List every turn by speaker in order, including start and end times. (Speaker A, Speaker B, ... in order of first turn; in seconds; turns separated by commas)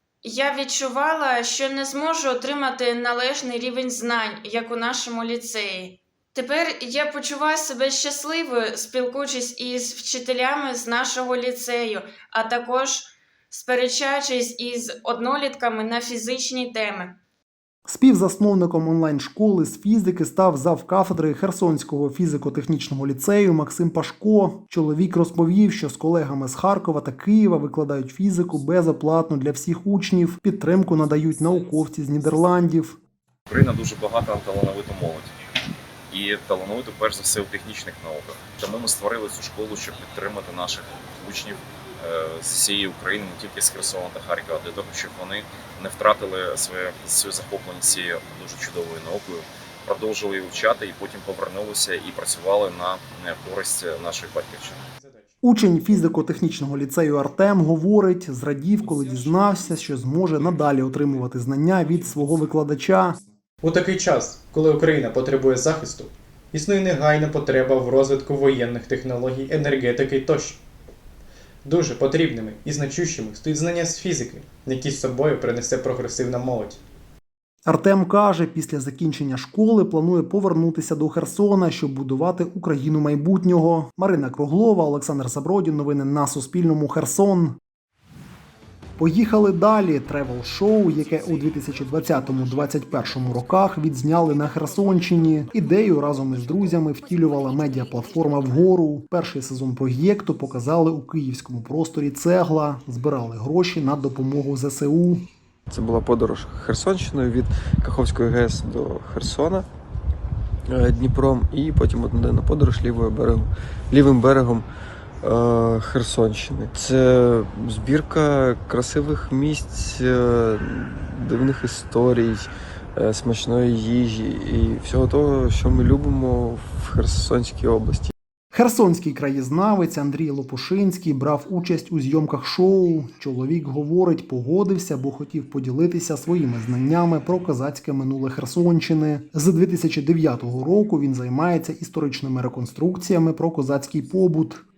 Speaker A: 0.2-17.1, Speaker B: 17.9-33.0, Speaker C: 33.5-35.4, Speaker C: 36.1-54.6, Speaker D: 54.8-55.3, Speaker B: 55.4-63.2, Speaker D: 63.6-70.6, Speaker D: 71.7-76.8, Speaker B: 77.7-87.6, Speaker B: 89.0-105.2, Speaker E: 105.7-109.7, Speaker E: 110.7-114.7, Speaker E: 115.2-128.1, Speaker B: 128.5-144.6